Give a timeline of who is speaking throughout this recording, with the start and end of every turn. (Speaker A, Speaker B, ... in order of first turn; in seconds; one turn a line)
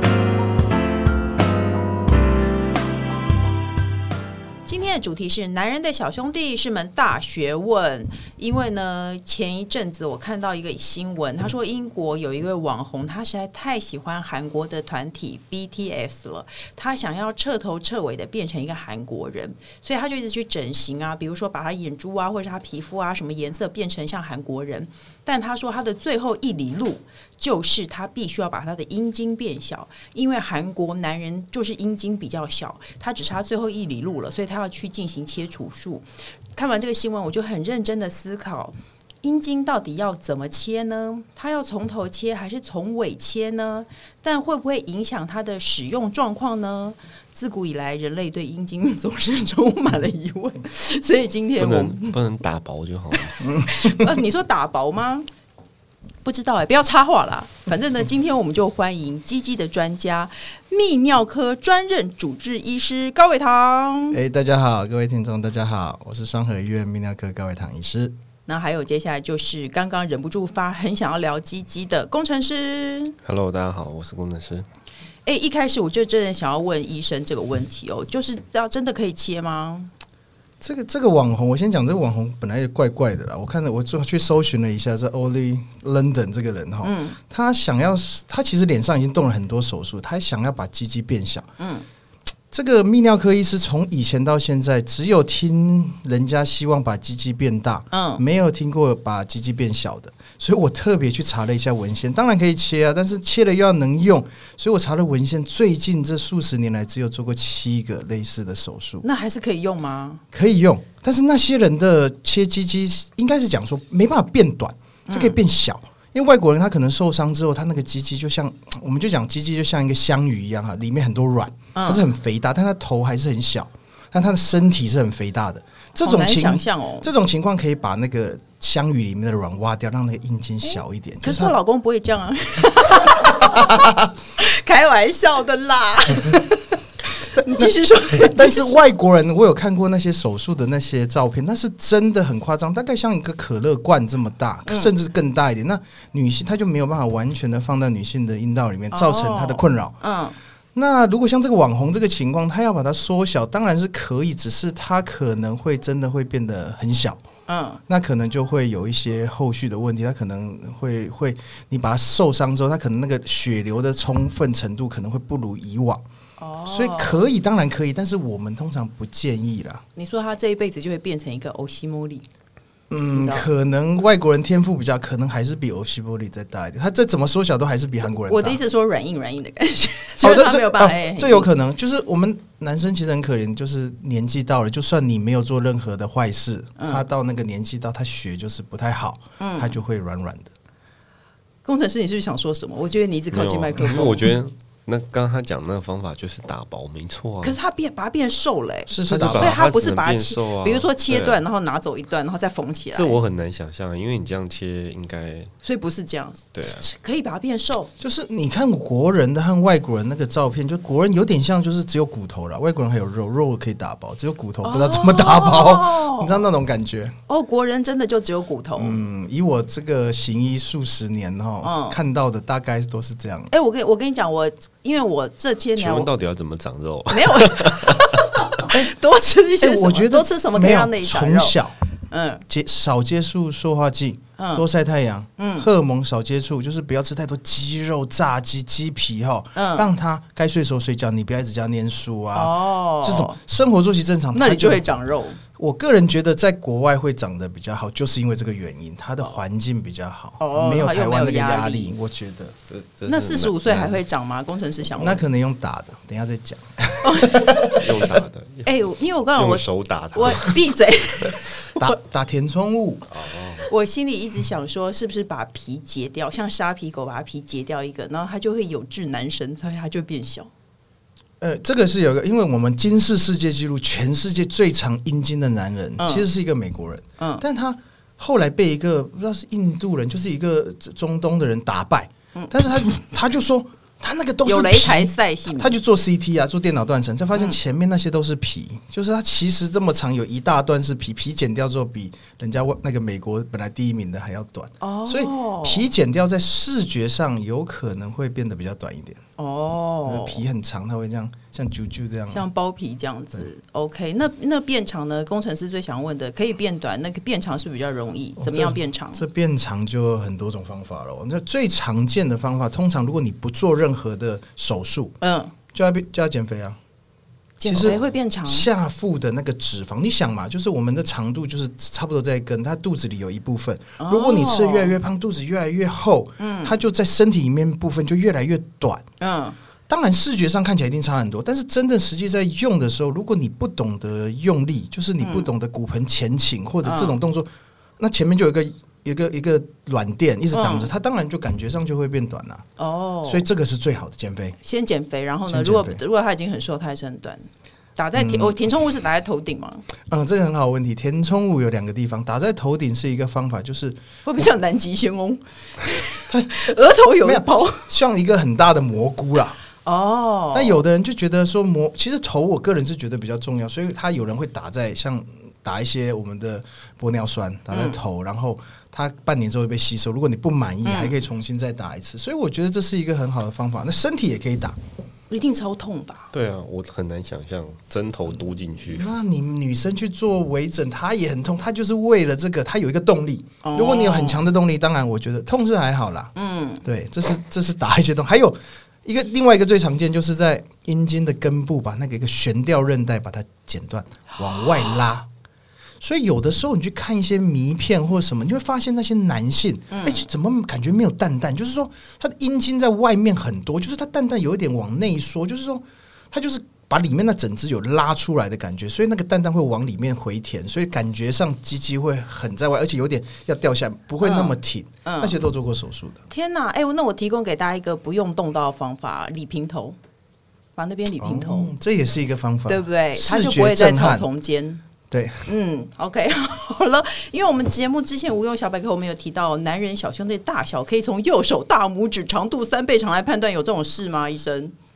Speaker A: 4.6-52.2
Speaker B: 51.6-53.4
Speaker A: 53.1-55.3
Speaker C: 53.4-54.2
Speaker A: 56.2-64.2
Speaker C: 64.1-68.2
Speaker A: 68.5-73.2
Speaker B: 73.2-74.7
Speaker A: 75.2-79.9
Speaker C: 80.6-91.5
Speaker A: 86.8-87.2
Speaker A: 91.6-91.8
Speaker C: 92.5-109.0
Speaker A: 97.9-98.2
Speaker A: 109.0-110.2
Speaker C: 110.3-131.5
Speaker A: 115.1-115.4
Speaker A: 121.8-122.0
Speaker A: 126.0-127.1
Speaker A: 130.6-138.8
Speaker C: 133.2-134.1
Speaker C: 137.3-149.9
Speaker A: 144.7-144.9
Speaker A: 148.9-150.3
Speaker C: 150.8-157.2
Speaker A: 157.5-157.8
Speaker C: 157.9-166.0
Speaker A: 166.4-167.2
Speaker C: 166.7-169.8
Speaker A: 169.9-172.3
Speaker C: 172.9-178.6
Speaker A: 173.1-173.5
Speaker A: 178.3-181.5
Speaker C: 180.2-190.5
Speaker A: 186.8-187.1
Speaker A: 189.4-189.8
Speaker A: 191.6-194.3
Speaker B: 193.3-197.6
Speaker A: 197.4-203.2
Speaker C: 198.9-199.6
Speaker B: 199.1-201.4
Speaker B: 202.9-205.5
Speaker A: 205.6-207.9
Speaker B: 206.5-206.8
Speaker C: 208.0-217.2
Speaker A: 214.6-216.4
Speaker A: 217.3-219.0
Speaker C: 218.8-223.5
Speaker A: 221.6-222.0
Speaker A: 223.5-226.1
Speaker B: 225.8-228.1
Speaker A: 227.1-231.6
Speaker C: 229.6-231.8
Speaker A: 232.1-232.4
Speaker C: 232.5-244.9
Speaker A: 234.4-234.6
Speaker A: 235.4-235.7
Speaker A: 239.5-239.9
Speaker A: 242.3-243.3
Speaker A: 244.3-245.4
Speaker C: 245.6-252.5
Speaker A: 250.4-251.9
Speaker B: 252.7-253.8
Speaker A: 253.1-255.2
Speaker C: 255.0-258.1
Speaker A: 257.0-257.8
Speaker B: 257.6-258.7
Speaker A: 258.6-261.9
Speaker B: 259.4-260.6
Speaker C: 261.7-263.1
Speaker B: 263.1-263.7
Speaker A: 263.6-270.5
Speaker C: 271.4-299.2
Speaker A: 276.0-276.3
Speaker A: 277.2-277.4
Speaker A: 284.4-285.8
Speaker A: 294.8-295.9
Speaker A: 299.4-300.4
Speaker C: 300.1-302.4
Speaker A: 302.3-309.2
Speaker C: 308.4-315.1
Speaker A: 315.2-315.5
Speaker C: 315.7-316.8
Speaker A: 317.6-318.7
Speaker C: 317.7-329.1
Speaker B: 317.7-318.0
Speaker A: 324.0-325.0
Speaker A: 326.4-326.8
Speaker A: 329.2-329.6
Speaker C: 329.9-342.7
Speaker A: 335.2-335.5
Speaker A: 336.8-337.2
Speaker A: 340.5-340.9
Speaker A: 342.8-343.4
Speaker C: 343.2-344.6
Speaker A: 344.6-349.9
Speaker C: 345.5-346.0
Speaker C: 348.2-348.6
Speaker C: 350.1-354.0
Speaker A: 354.2-357.9
Speaker C: 356.3-359.6
Speaker A: 359.8-360.8
Speaker C: 360.5-374.8
Speaker A: 367.7-368.0
Speaker A: 370.9-371.1
Speaker A: 375.3-376.3
Speaker B: 376.3-379.1
Speaker C: 378.9-386.3
Speaker A: 383.6-384.4
Speaker A: 386.4-386.8
Speaker C: 386.8-395.3
Speaker A: 394.6-395.0
Speaker C: 396.0-416.2
Speaker A: 399.9-400.3
Speaker A: 414.2-415.4
Speaker A: 416.3-420.0
Speaker A: 420.8-421.7
Speaker C: 421.2-424.2
Speaker A: 422.7-424.8
Speaker C: 425.1-425.5
Speaker A: 425.5-434.7